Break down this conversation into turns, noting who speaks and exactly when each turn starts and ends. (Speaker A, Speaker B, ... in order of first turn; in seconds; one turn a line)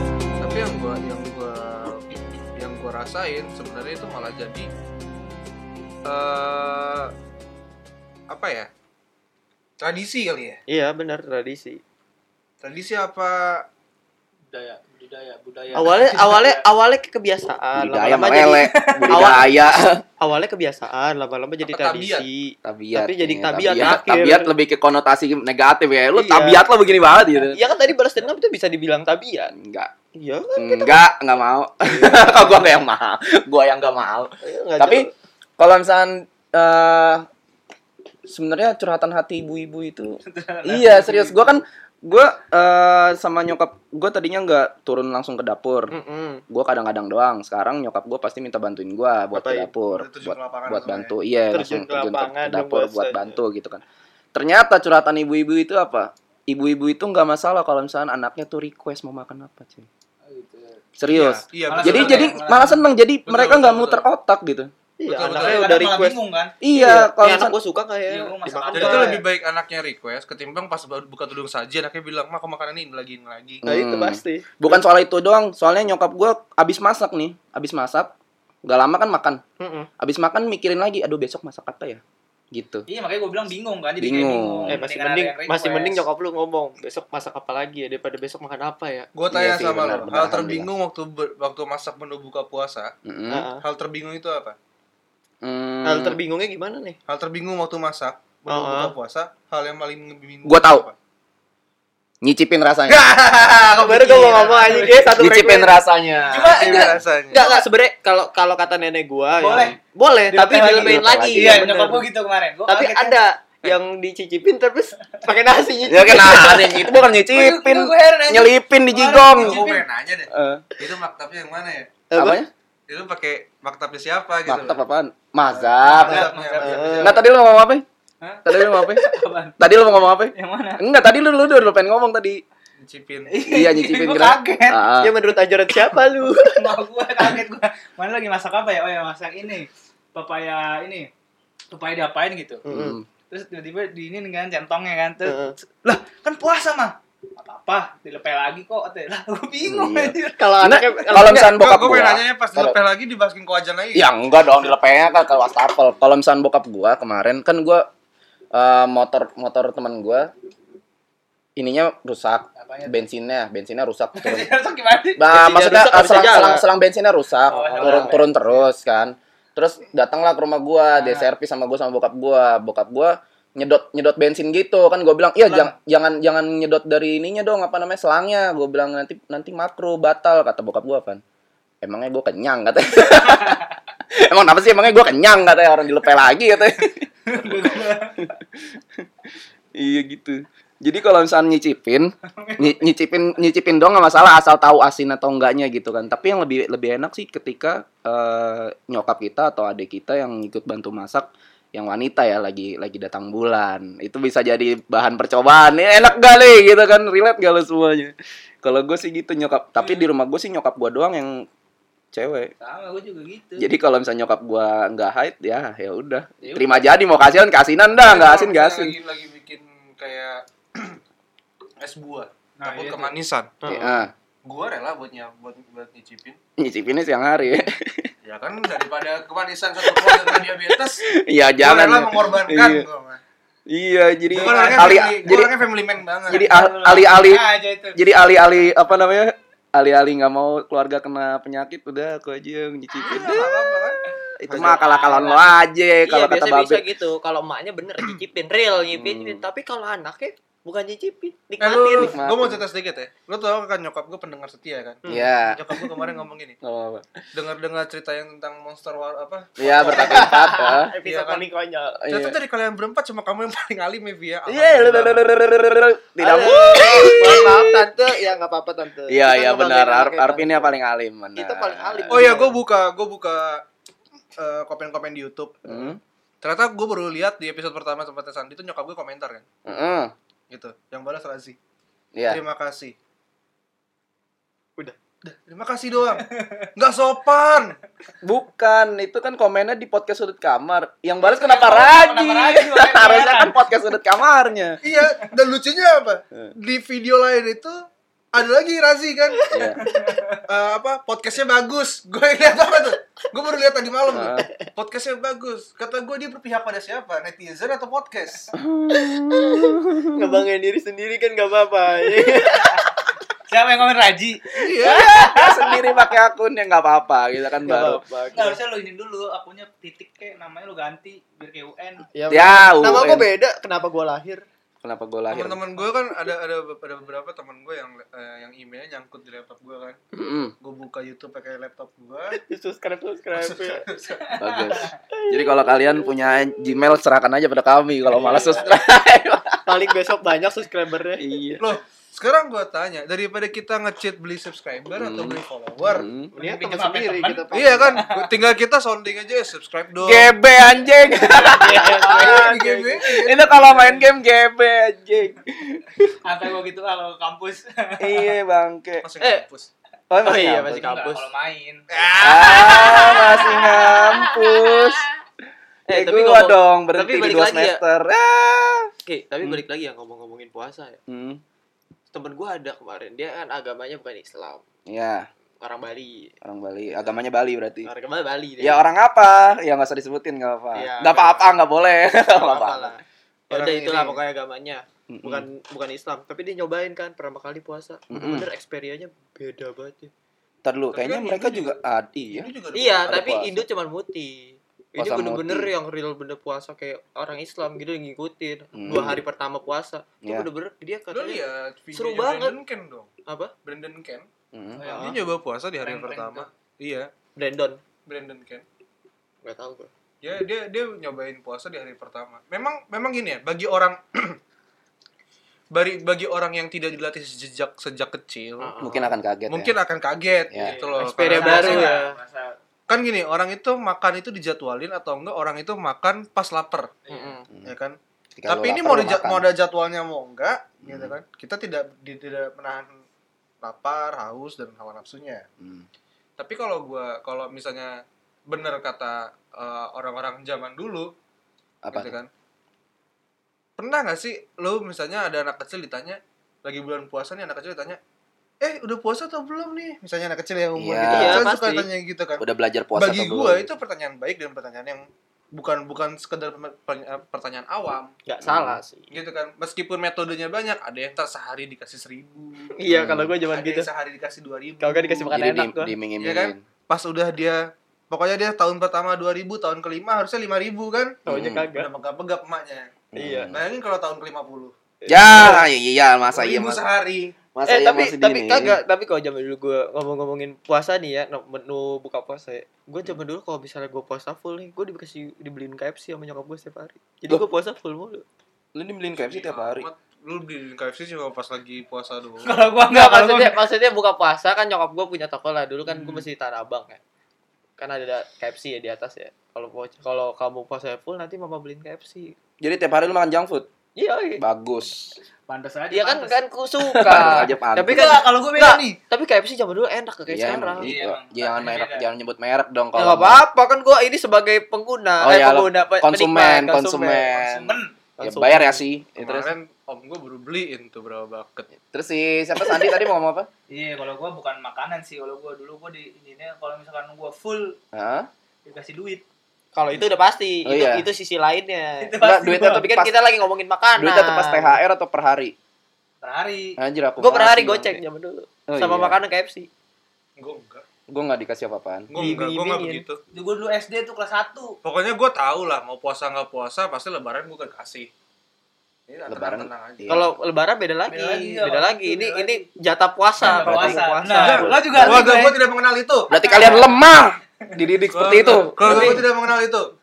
Speaker A: 0.4-4.7
Speaker A: 6.0-7.1
Speaker A: 8.3-8.7
Speaker A: 9.8-10.6
Speaker B: 10.7-11.8
Speaker A: 12.6-13.6
Speaker C: 14.5-16.6
Speaker B: 15.7-19.5
Speaker D: 17.8-20.0
Speaker C: 18.8-19.1
Speaker B: 20.2-24.5
Speaker A: 21.6-22.3
Speaker D: 22.6-27.6
Speaker B: 26.1-26.6
Speaker B: 27.3-29.5
Speaker D: 29.5-29.9
Speaker B: 30.1-31.0
Speaker D: 30.6-35.1
Speaker B: 31.8-32.7
Speaker B: 34.4-35.1
Speaker D: 35.6-37.2
Speaker D: 38.3-45.9
Speaker C: 40.2-41.6
Speaker B: 45.9-46.4
Speaker D: 46.5-53.8
Speaker B: 49.3-49.7
Speaker A: 49.9-51.1
Speaker B: 51.5-53.4
Speaker D: 54.3-59.9
Speaker C: 60.2-60.9
Speaker D: 61.0-64.7
Speaker A: 61.0-62.4
Speaker C: 61.6-62.9
Speaker A: 63.3-64.0
Speaker B: 65.0-69.2
Speaker A: 65.1-65.7
Speaker C: 65.3-66.5
Speaker D: 66.6-67.5
Speaker C: 68.1-69.2
Speaker A: 68.7-73.6
Speaker D: 73.6-78.1
Speaker B: 73.6-74.8
Speaker D: 78.6-79.4
Speaker B: 79.6-79.9
Speaker D: 80.0-82.9
Speaker C: 82.9-86.0
Speaker D: 84.0-84.8
Speaker B: 84.7-89.1
Speaker A: 89.1-92.9
Speaker D: 89.3-90.7
Speaker D: 93.0-93.5
Speaker B: 93.3-93.6
Speaker A: 93.6-94.5
Speaker D: 95.4-96.2
Speaker B: 95.8-97.0
Speaker A: 97.1-100.9
Speaker B: 98.5-98.9
Speaker D: 100.4-100.8
Speaker D: 102.2-103.1
Speaker A: 102.9-104.5
Speaker C: 103.7-105.1
Speaker B: 103.7-105.8
Speaker D: 105.2-107.0
Speaker C: 106.2-107.0
Speaker A: 106.5-107.4
Speaker B: 107.3-112.0
Speaker C: 109.4-109.8
Speaker C: 110.3-113.2
Speaker D: 110.7-111.6
Speaker B: 112.7-116.9
Speaker D: 115.9-119.7
Speaker C: 117.3-119.9
Speaker A: 119.3-122.0
Speaker D: 120.3-120.7
Speaker B: 122.1-122.4
Speaker D: 122.1-122.5
Speaker A: 122.9-124.8
Speaker D: 124.5-126.3
Speaker A: 125.5-127.0
Speaker C: 125.9-127.2
Speaker B: 126.1-127.2
Speaker D: 127.0-127.8
Speaker C: 128.2-130.8
Speaker D: 128.4-129.1
Speaker D: 129.6-132.4
Speaker A: 132.8-133.4
Speaker C: 133.3-134.8
Speaker D: 133.5-135.1
Speaker B: 135.0-136.7
Speaker C: 136.4-141.1
Speaker C: 141.7-142.6
Speaker B: 142.6-143.0
Speaker D: 142.7-143.0
Speaker C: 143.3-150.5
Speaker B: 145.2-145.6
Speaker D: 149.6-152.8
Speaker B: 150.4-151.5
Speaker A: 151.2-154.1
Speaker D: 153.9-157.8
Speaker D: 158.5-160.3
Speaker D: 161.6-164.5
Speaker C: 162.6-163.0
Speaker C: 164.2-165.2
Speaker D: 165.2-181.2
Speaker B: 165.3-166.7
Speaker C: 167.5-168.6
Speaker B: 167.5-168.2
Speaker C: 170.9-171.3
Speaker C: 175.4-175.7
Speaker D: 181.8-189.1
Speaker C: 187.3-188.3
Speaker D: 189.8-211.5
Speaker C: 192.3-192.8
Speaker C: 209.8-210.1
Speaker D: 212.1-212.5
Speaker C: 212.6-213.7
Speaker D: 213.6-218.9
Speaker C: 216.4-216.9
Speaker A: 218.0-221.0
Speaker A: 221.8-223.6
Speaker C: 222.6-223.1
Speaker B: 223.6-224.0
Speaker D: 223.7-224.1
Speaker A: 224.4-226.4
Speaker D: 226.6-228.1
Speaker A: 228.2-231.0
Speaker D: 229.8-232.8
Speaker A: 231.6-233.2
Speaker D: 233.7-235.5
Speaker A: 234.3-236.4
Speaker C: 236.3-238.0
Speaker D: 236.3-243.5
Speaker A: 243.0-244.8
Speaker D: 244.4-246.8
Speaker C: 244.7-245.5
Speaker B: 246.1-252.2
Speaker D: 248.9-249.4
Speaker A: 251.6-256.6
Speaker D: 252.0-252.6
Speaker B: 255.0-255.3
Speaker D: 255.1-256.1
Speaker D: 256.6-257.2
Speaker A: 257.3-260.4
Speaker D: 259.6-260.9
Speaker B: 259.8-262.0
Speaker A: 261.0-261.4
Speaker D: 262.0-262.4
Speaker A: 262.1-265.4
Speaker D: 264.5-267.7
Speaker B: 266.2-270.7
Speaker D: 269.1-272.3
Speaker B: 271.4-272.6
Speaker A: 272.1-273.6
Speaker A: 274.4-275.9
Speaker D: 275.6-276.0
Speaker A: 276.4-279.4
Speaker D: 279.6-280.1
Speaker A: 280.5-281.6
Speaker D: 282.1-282.4
Speaker A: 282.3-282.9
Speaker A: 285.2-287.8
Speaker D: 288.2-294.8
Speaker C: 291.2-293.6
Speaker A: 294.8-297.8
Speaker A: 298.3-299.4
Speaker D: 299.5-299.8
Speaker B: 299.5-300.0
Speaker C: 299.8-300.4
Speaker A: 300.5-308.5
Speaker D: 304.1-304.5
Speaker D: 308.5-310.4
Speaker B: 308.9-313.1
Speaker C: 313.5-316.1
Speaker A: 314.5-315.1
Speaker D: 314.8-318.0
Speaker B: 317.6-318.6
Speaker C: 318.3-322.0
Speaker B: 322.1-324.4
Speaker D: 322.3-323.3
Speaker D: 324.8-325.6
Speaker A: 325.3-330.0
Speaker D: 330.1-330.5
Speaker A: 330.6-332.4
Speaker B: 332.3-333.8
Speaker A: 333.3-334.4
Speaker C: 334.2-334.9
Speaker D: 334.4-339.6
Speaker B: 335.1-336.0
Speaker C: 338.1-338.6
Speaker B: 338.3-338.7
Speaker B: 339.6-341.2
Speaker D: 341.2-341.6
Speaker A: 341.6-346.1
Speaker D: 345.0-346.3
Speaker C: 346.3-348.3
Speaker B: 346.4-348.0
Speaker A: 347.5-350.3
Speaker D: 350.0-352.3
Speaker B: 351.2-353.0
Speaker A: 352.0-354.0
Speaker D: 353.0-356.1
Speaker C: 356.2-358.3
Speaker D: 358.0-359.1
Speaker A: 359.0-359.7
Speaker D: 360.1-360.8
Speaker B: 360.2-361.3
Speaker C: 360.7-365.0
Speaker A: 361.9-363.2
Speaker D: 362.2-365.1
Speaker B: 365.9-367.8
Speaker D: 365.9-369.6
Speaker B: 369.0-371.0
Speaker D: 371.1-371.4
Speaker B: 372.1-374.6
Speaker D: 374.9-375.3
Speaker B: 375.6-376.3
Speaker D: 376.4-377.9
Speaker B: 377.8-378.8
Speaker D: 378.6-382.9
Speaker B: 380.7-381.5
Speaker B: 382.3-390.1
Speaker D: 383.5-384.2
Speaker D: 385.1-385.4
Speaker D: 388.1-388.5
Speaker D: 390.6-392.5
Speaker A: 390.9-391.8
Speaker A: 392.3-393.1
Speaker B: 392.7-401.4
Speaker D: 393.0-393.6
Speaker D: 395.0-395.7
Speaker D: 398.7-399.2
Speaker A: 401.1-403.1
Speaker B: 401.9-402.6
Speaker B: 403.2-403.5
Speaker A: 403.6-404.3
Speaker D: 404.5-404.9
Speaker C: 404.8-406.5
Speaker B: 404.8-405.2
Speaker A: 404.9-407.1
Speaker B: 407.4-407.8
Speaker A: 408.1-408.6
Speaker B: 409.4-409.9
Speaker A: 410.2-414.4
Speaker A: 415.7-418.7
Speaker B: 418.6-419.1
Speaker D: 418.8-419.7
Speaker A: 419.5-421.9
Speaker D: 420.5-420.8
Speaker C: 420.6-422.6
Speaker B: 421.0-422.2
Speaker A: 422.9-426.9
Speaker C: 427.1-427.4
Speaker B: 427.1-427.4
Speaker A: 427.6-433.0
Speaker D: 428.4-429.5
Speaker D: 430.8-431.1
Speaker A: 433.6-435.4
Speaker D: 435.6-435.9
Speaker A: 436.4-437.9
Speaker A: 438.5-441.1
Speaker D: 441.8-442.2
Speaker A: 441.9-442.3
Speaker A: 443.8-448.0
Speaker A: 448.6-452.4
Speaker D: 450.8-451.5
Speaker B: 451.1-451.9
Speaker D: 452.4-453.7
Speaker A: 452.9-458.1
Speaker B: 458.2-459.1
Speaker D: 458.4-458.8
Speaker A: 459.1-462.8
Speaker B: 462.8-463.9
Speaker D: 462.9-463.3
Speaker A: 463.5-465.3
Speaker B: 464.8-465.9
Speaker D: 465.3-466.6
Speaker A: 466.2-471.2
Speaker B: 471.2-471.9
Speaker D: 471.3-471.7
Speaker A: 471.7-472.9
Speaker D: 473.1-473.6
Speaker B: 473.1-473.5
Speaker A: 473.5-474.7
Speaker B: 475.0-475.6
Speaker D: 475.1-476.8
Speaker A: 476.3-477.4
Speaker D: 477.5-478.8
Speaker B: 477.6-488.2
Speaker D: 488.7-489.9
Speaker A: 489.1-492.5
Speaker C: 492.4-493.6
Speaker B: 492.9-497.0
Speaker C: 495.9-496.2
Speaker B: 497.8-502.3
Speaker D: 502.6-503.7
Speaker B: 503.9-504.4
Speaker D: 504.4-505.2
Speaker C: 505.5-506.4
Speaker B: 505.9-510.9
Speaker D: 506.9-508.1
Speaker C: 507.0-509.0
Speaker D: 510.3-513.4
Speaker C: 510.8-512.1
Speaker B: 512.9-517.3
Speaker D: 515.2-519.5
Speaker C: 517.3-517.9
Speaker B: 518.2-518.8
Speaker A: 519.2-521.7
Speaker D: 521.8-523.5
Speaker C: 523.7-527.8
Speaker D: 527.9-528.3
Speaker C: 528.6-529.2
Speaker B: 529.7-534.8
Speaker D: 530.6-531.1
Speaker C: 532.0-532.9
Speaker D: 532.2-533.1
Speaker D: 534.0-535.5
Speaker C: 536.2-536.7
Speaker D: 536.8-538.0
Speaker B: 537.2-539.7
Speaker D: 538.7-539.2
Speaker A: 540.4-540.8
Speaker D: 541.1-542.1
Speaker A: 542.1-543.2
Speaker B: 542.1-543.0
Speaker C: 543.3-544.8
Speaker A: 544.8-548.1
Speaker A: 549.1-550.1
Speaker D: 549.3-550.4
Speaker B: 550.1-554.7
Speaker C: 551.1-552.6
Speaker C: 553.4-555.6
Speaker D: 553.6-554.0
Speaker A: 554.4-556.3
Speaker D: 556.3-559.2
Speaker C: 556.3-556.9
Speaker A: 558.1-559.9
Speaker B: 558.8-559.2